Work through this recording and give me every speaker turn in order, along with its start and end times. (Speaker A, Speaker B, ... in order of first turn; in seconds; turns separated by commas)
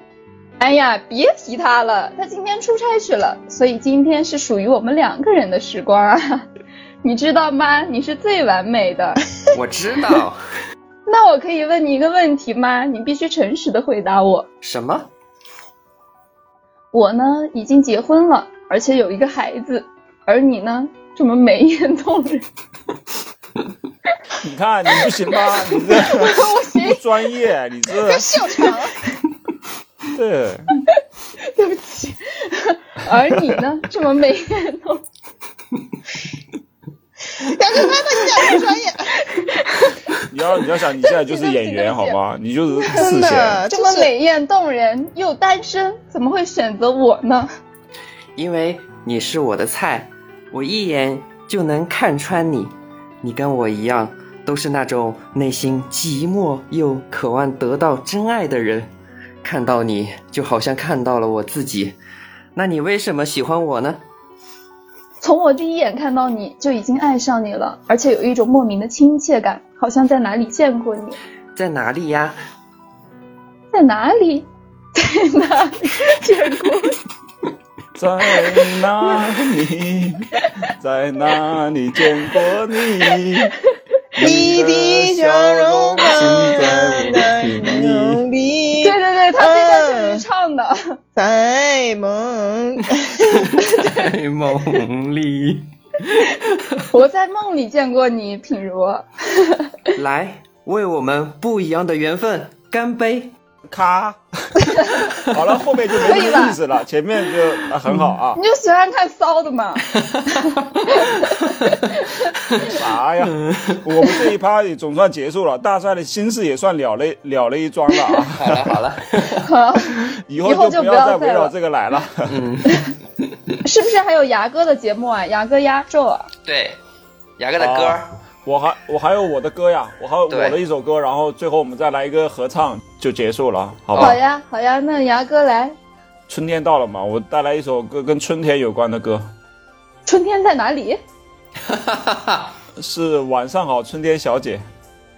Speaker A: 0.6-6.5, Speaker A: 7.0-9.2, Speaker B: 9.5-10.4, Speaker A: 11.1-14.5, Speaker B: 14.6-15.1, Speaker A: 16.9-22.4, Speaker C: 24.4-28.3, Speaker A: 25.9-27.3, Speaker D: 28.1-29.0, Speaker C: 30.1-30.7, Speaker A: 31.5-35.0, Speaker D: 37.4-39.1, Speaker C: 40.3-43.6, Speaker A: 41.0-42.2, Speaker A: 42.8-43.1, Speaker D: 42.9-44.1, Speaker A: 43.7-47.5, Speaker B: 48.4-58.9, Speaker B: 59.4-62.0, Speaker B: 62.5-64.0, Speaker A: 65.2-71.2, Speaker B: 71.5-72.4, Speaker A: 73.7-77.0, Speaker C: 78.0-80.3, Speaker C: 80.8-83.5, Speaker C: 84.2-88.2, Speaker D: 84.2-90.2, Speaker A: 88.8-90.8, Speaker D: 91.2-93.4, Speaker B: 93.8-96.3, Speaker A: 96.9-99.6, Speaker B: 100.0-103.3, Speaker C: 103.7-104.2, Speaker C: 105.3-108.4, Speaker A: 106.0-106.6, Speaker A: 108.4-109.8, Speaker C: 112.7-118.8, Speaker B: 113.4-113.8, Speaker B: 118.4-119.5, Speaker A: 119.4-121.5, Speaker C: 120.2-122.4, Speaker B: 122.3-122.9, Speaker A: 123.7-126.3, Speaker B: 126.5-126.8, Speaker B: 127.4-128.1, Speaker C: 127.6-134.2, Speaker B: 130.3-130.6, Speaker A: 134.0-135.8, Speaker C: 136.3-139.3, Speaker A: 140.1-141.0, Speaker B: 141.7-142.5, Speaker C: 142.8-144.6